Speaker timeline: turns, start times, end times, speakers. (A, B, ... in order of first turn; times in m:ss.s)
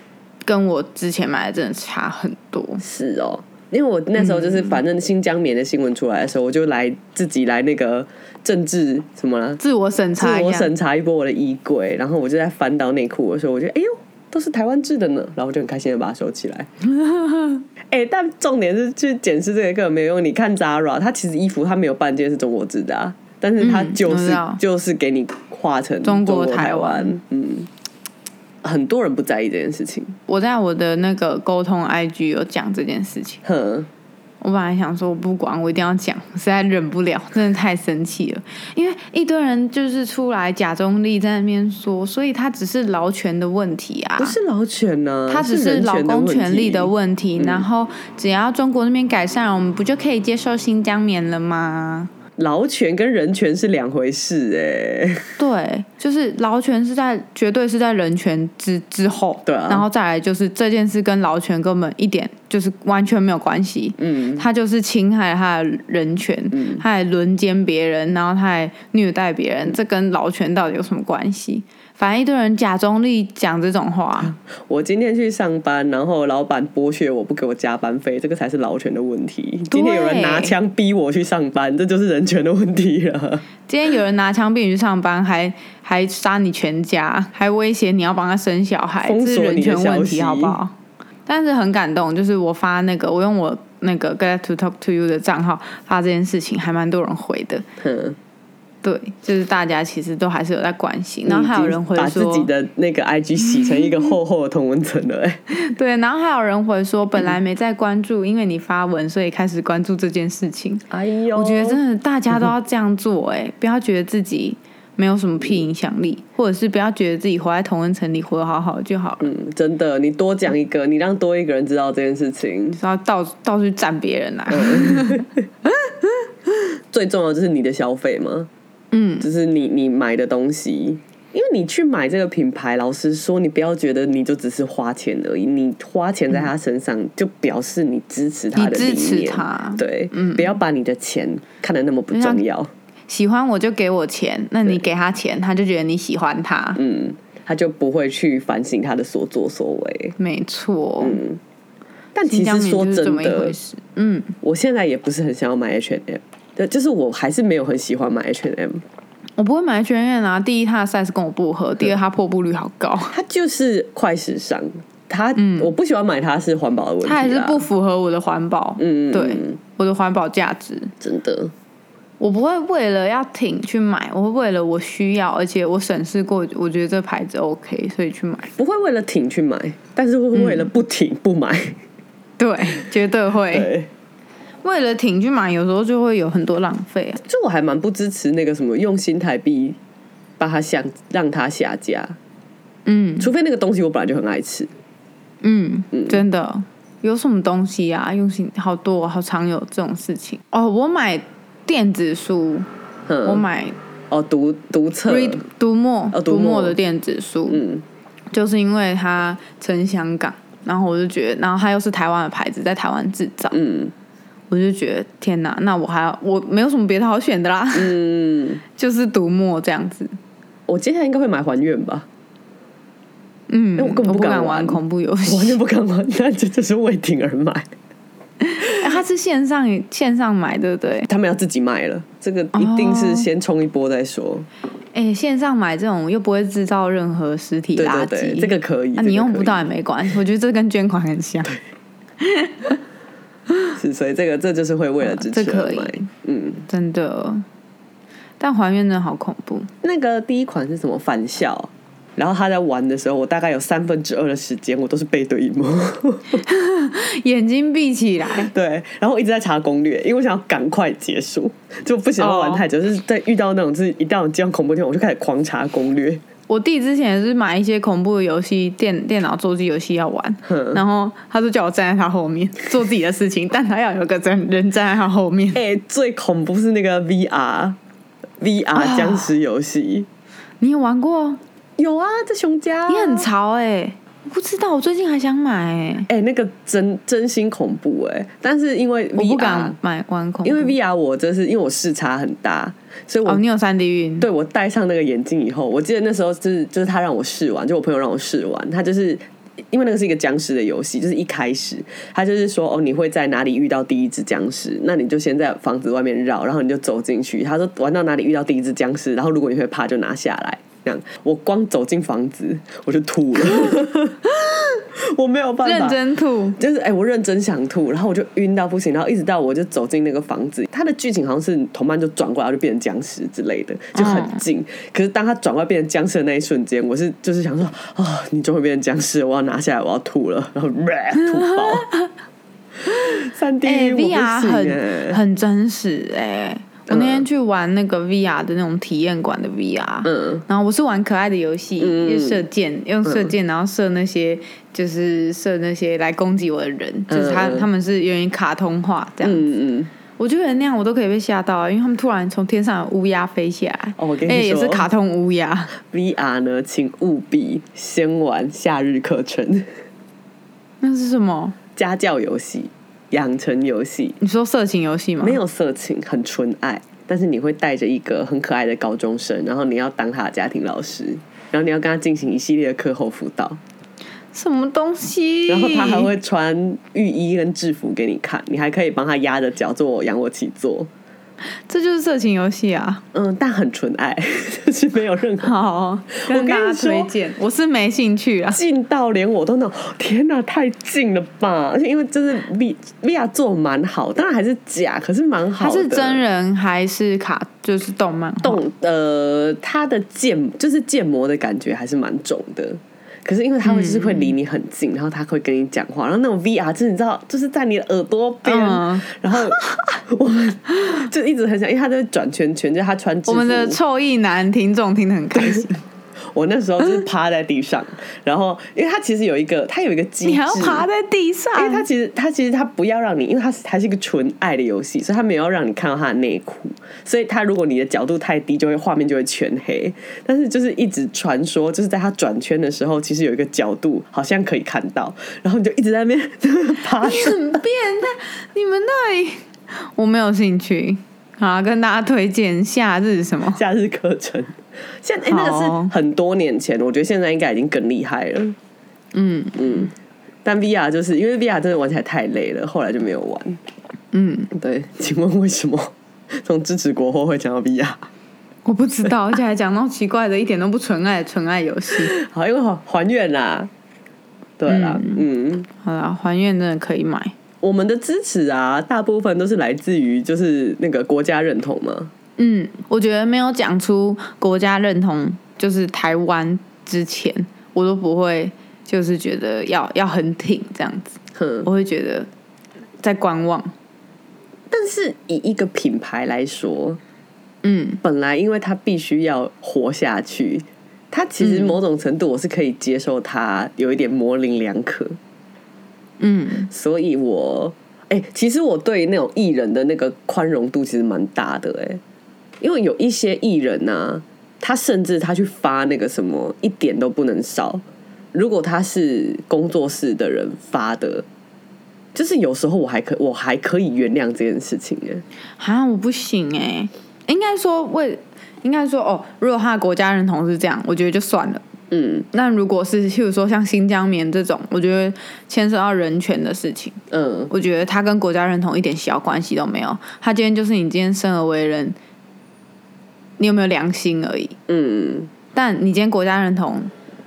0:00.4-0:02.8 A
0:02.8-0:09.6 B
0:04.2-0:04.8 A
0:09.6-0:10.7 A
0:10.2-0:16.7 B
0:16.9-0:17.6 A
0:17.9-0:27.7 B
0:23.6-0:24.6 A
0:26.0-0:27.1 A
0:28.6-0:30.2 B
0:30.3-0:33.4 A
0:33.4-0:33.9 B
0:34.4-0:44.4 A
0:44.2-0:47.6 B
0:45.3-0:52.1 A
0:52.4-0:55.4 B
0:55.4-1:14.3 A
0:59.4-0:59.8 B
1:04.0-1:04.4 B
1:06.5-1:06.8 B
1:14.2-1:23.4 B
1:19.7-1:20.5 A
1:23.7-1:30.7 A
1:29.0-1:30.6 B
1:31.3-1:37.6 A
1:37.8-1:38.2 B
1:38.8-1:42.5 A
1:41.2-1:45.4 B
1:45.5-1:59.3 A
1:50.9-1:51.8 B
1:59.2-2:02.8 B
2:02.8-2:05.3 A
2:04.5-2:05.4 B
2:06.9-2:08.5 B
2:08.9-2:09.3 A
2:09.2-2:22.7 B
2:18.6-2:20.5 A
2:22.1-2:22.4 A
2:23.1-2:26.8 A
2:26.7-2:30.2 B
2:30.2-2:31.2 A
2:31.0-2:31.4 B
2:32.1-2:33.6 B
2:32.3-2:34.3 A
2:34.4-2:38.8 B
2:39.4-2:43.1 A
2:43.1-2:47.6 B
2:45.4-2:45.7 A
2:47.0-2:50.9 A
2:48.8-2:49.6 B
2:51.0-2:51.5 B
2:52.2-2:58.5 A
2:58.6-3:01.8 B
3:00.3-3:00.7 A
3:02.4-3:03.7 A
3:03.5-3:03.9 B
3:04.6-3:07.2 A
3:07.2-3:09.8 B
3:10.4-3:12.2 B
3:12.8-3:13.3 A
3:13.2-3:14.7 B
3:15.4-3:22.7 A
3:15.9-3:16.2 B
3:23.1-3:23.4 B
3:23.2-3:23.8 A
3:24.1-3:25.4 B
3:25.1-3:27.6 A
3:26.1-3:26.8 B
3:27.5-3:27.8 B
3:28.3-3:33.6 A
3:33.5-3:33.9 B
3:34.5-3:37.9 A
3:37.7-3:38.6 B
3:38.8-3:40.2 A
3:40.7-3:42.1 B
3:43.5-3:45.6 A
3:43.8-3:47.7 B
3:48.4-3:51.1 A
3:51.1-3:54.5 B
3:52.5-3:53.3 A
3:54.9-4:01.6 A
3:57.8-4:00.1 B
4:02.2-4:02.8 A
4:03.8-4:06.6 B
4:05.0-4:06.1 A
4:06.7-4:07.4 A
4:08.4-4:09.7 A
4:09.8-4:16.4 B
4:16.4-4:18.5 A
4:18.3-4:26.2 B
4:22.2-4:22.6 A
4:26.5-4:35.6 A
4:30.4-4:30.8 B
4:35.5-4:37.8 B
4:38.4-4:40.1 B
4:38.7-4:39.3 A
4:40.6-4:41.4 A
4:41.8-4:43.3 B
4:42.9-4:46.1 A
4:46.1-4:49.8 B
4:49.2-4:50.7 A
4:50.4-4:53.4 B
4:53.2-4:54.2 A
4:54.2-5:14.3 B
5:14.9-5:16.0 B
5:15.6-5:16.6 A
5:16.6-5:31.9 B
5:24.0-5:24.4 A
5:31.2-5:32.1 A
5:32.8-5:35.2 B
5:33.6-5:49.4 A
5:36.9-5:37.2 B
5:40.0-5:40.4 B
5:41.8-5:42.4 B
5:43.0-5:43.3 B
5:47.1-5:47.7 B
5:49.2-5:49.9 B
5:50.2-5:55.7 A
5:54.0-5:54.9 B
5:55.8-5:59.7 B
6:00.8-6:01.6 A
6:01.8-6:04.2 B
6:04.2-6:05.4 A
6:05.2-6:13.6 B
6:14.3-6:16.1 A
6:15.5-6:20.9 B
6:21.7-6:23.0 A
6:23.1-6:25.5 B
6:25.4-6:28.6 A
6:26.2-6:27.1 B
6:28.5-6:36.2 B
6:35.6-6:38.6 A
6:38.4-6:53.8 B
6:43.6-6:44.3 A
6:48.4-6:50.0 A
6:53.3-6:55.7 A
6:55.4-6:55.7 B
6:56.3-7:00.8 B
7:00.2-7:01.9 A
7:01.5-7:17.6 B
7:17.0-7:23.6 A
7:23.5-7:28.6 B
7:25.3-7:25.9 A
7:29.1-7:29.9 A
7:29.6-7:29.9 B
7:30.4-7:33.6 B
7:34.1-7:34.5 A
7:34.5-7:38.1 B
7:38.6-7:42.1 A
7:41.9-7:43.7 B
7:44.6-7:45.7 B
7:44.7-7:45.2 A
7:45.8-7:47.3 A
7:47.6-7:52.1 B
7:52.4-8:02.3 A
8:01.4-8:01.7 B
8:03.0-8:03.7 A
8:04.7-8:07.0 B
8:07.6-8:08.0 A
8:08.0-8:15.2 B
8:11.4-8:11.8 A
8:16.2-8:16.7 A
8:16.7-8:22.0 B
8:22.6-8:27.8 B
8:28.3-8:31.2 B
8:32.1-8:35.2 B
8:35.6-8:41.6 A
8:41.9-8:42.2 B
8:42.3-8:52.0 A
8:47.1-8:47.5 B
8:53.4-8:54.5 A
8:54.7-8:55.3 B
8:55.5-8:56.9 A